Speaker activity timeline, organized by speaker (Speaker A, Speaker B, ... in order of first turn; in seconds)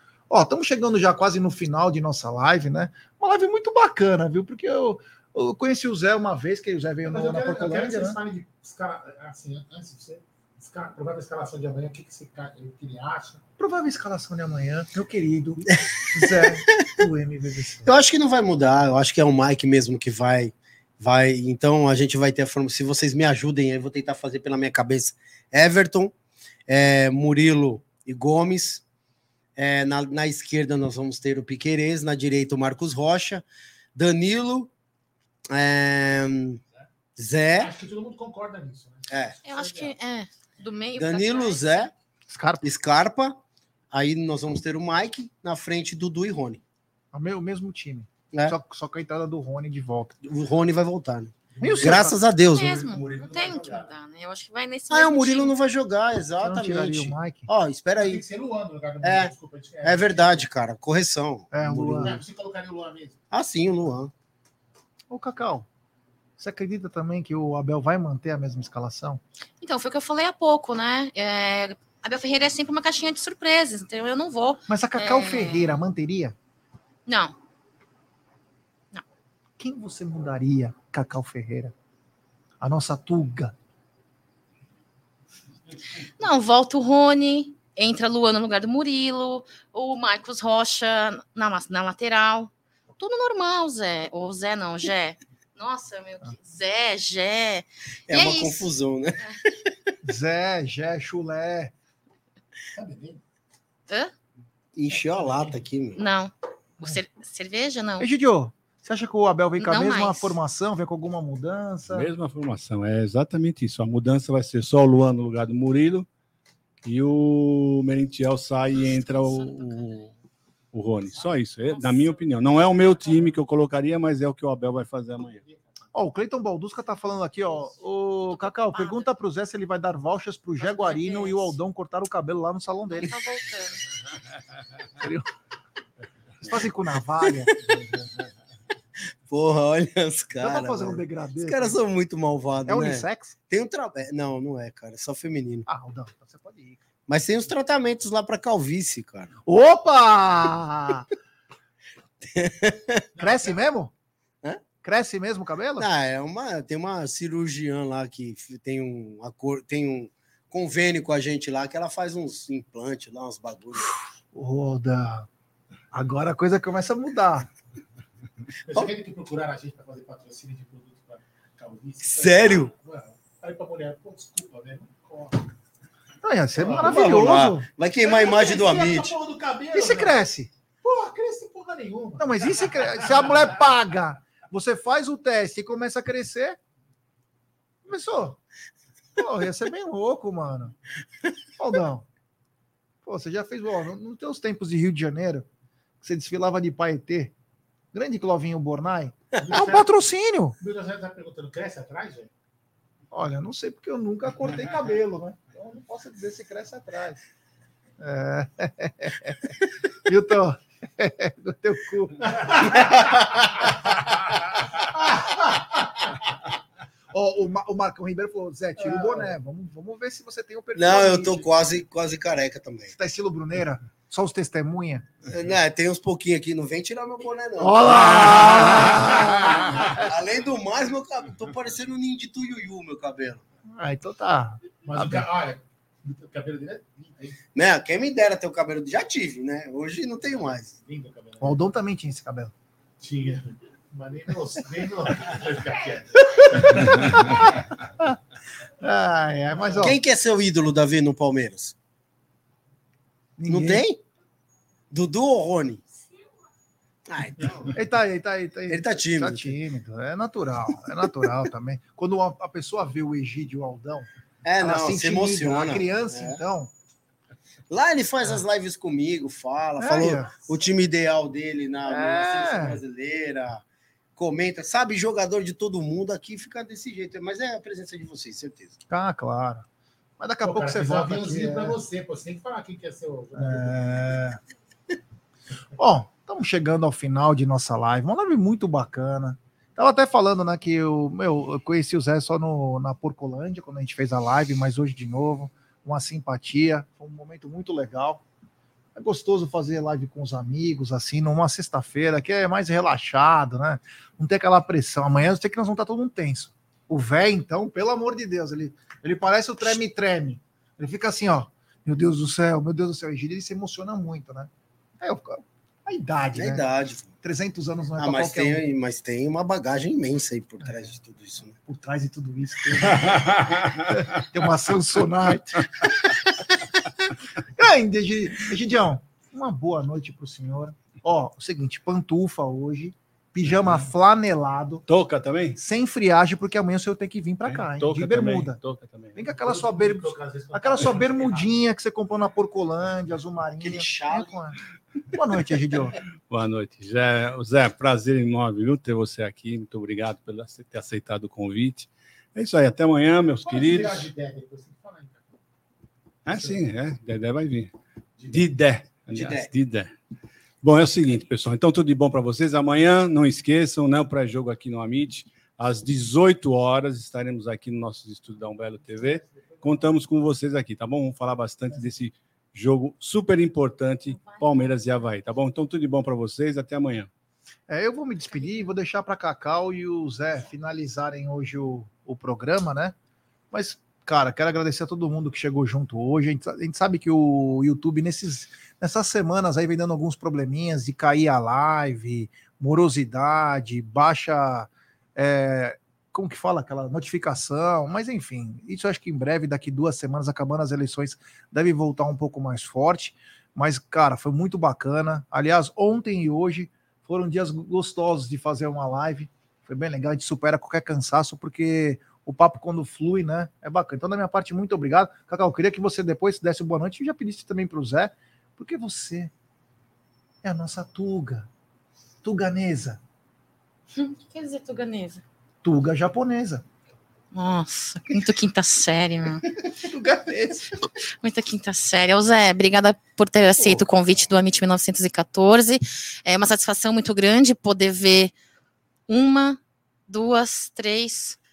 Speaker A: 0.3-8.2, 13.6-17.9, 42.3-42.6, 47.1-50.2, 51.6-52.2, 56.4-57.5, 61.5-62.2, 65.1-65.7, 66.4-69.2, 74.7-76.4, 79.6-81.7, 82.6-83.5, 100.0-101.7, 108.0-112.1, 125.9-133.2, 135.0-135.3, 136.4-138.1, 140.4-141.8, 142.7-143.4, 145.7-146.8, 149.5-151.1, 153.2-153.9, 154.8-155.9, 163.9-165.3, 165.9-167.5, 176.2-177.7, 179.7-180.5, 182.2-186.6, 187.8-188.4, 189.2-190.7, 191.6-192.1, 193.0-195.5, 196.0-197.3, 197.9-200.6, 203.1-207.2, 208.0-213.5, 217.1-221.5, 223.0-225.1, 227.6-230.0, 233.7-235.2, 241.4-242.5, 246.4-248.2, 248.8-250.0, 253.4-253.8, 257.7-264.1, 264.6-266.7, 269.8-270.3, 271.9-272.8, 278.9-279.7, 280.2-281.8, 283.4-284.4, 285.8-298.2, 298.9-316.6, 317.2-318.6, 321.7-326.7, 327.6-334.9, 335.6-338.6, 339.1-344.6, 345.1-346.0, 377.7-382.9, 383.5-419.3, 420.4-421.5, 422.2-423.0, 425.6-426.6, 429.7-430.8
Speaker B: 7.1-13.4, 37.6-40.0, 51.6-52.1, 52.7-53.8, 58.0-60.3, 62.0-63.2, 102.8-103.2, 105.2-105.5, 121.2-122.2, 153.2-153.6, 168.7-175.5, 176.6-177.5, 178.0-180.2, 180.8-183.5, 199.4-199.9, 200.6-202.3, 228.9-229.8, 234.8-237.4, 240.9-241.6, 243.0-247.5, 280.4-283.8, 339.3-341.5, 353.4-355.3, 356.3-356.6, 358.2-358.4, 369.0-369.8
Speaker C: 16.3-16.9, 17.9-26.1, 26.7-28.8, 29.6-34.7, 35.5-36.6, 37.2-37.7, 39.1-39.4, 41.0-41.9, 42.6-43.4, 43.9-46.6, 50.2-52.9, 54.9-58.2, 59.0-62.2, 63.3-64.1, 98.1-100.0, 104.8-106.0, 137.2-137.7, 139.3-145.7, 147.1-149.3, 152.2-153.1, 155.8-163.9, 172.0-172.7, 176.8-179.2, 212.7-213.1, 220.8-222.9, 225.2-233.4, 237.6-240.8, 249.8-251.8, 253.5-254.0, 254.9-255.8, 257.1-257.8, 258.7-259.6, 264.4-266.4, 267.7-273.6, 274.2-278.8, 316.3-317.1, 318.0-321.6, 343.6-344.4, 359.1-359.5, 433.6-433.9
Speaker D: 39.5-41.9, 52.5-55.5, 69.6-75.8, 77.1-77.3, 86.2-98.7, 106.0-108.1, 109.6-110.4, 128.7-129.1, 130.6-131.6, 132.9-133.9, 374.1-374.7, 423.9-425.2, 427.3-429.5, 431.2-438.3, 439.1-441.4
Speaker E: 111.9-116.1, 116.8-120.1, 120.7-125.4, 323.0-324.0, 333.5-333.9, 334.9-335.6, 337.5-339.2, 346.3-354.1, 356.2-357.7, 358.3-359.9, 360.6-377.1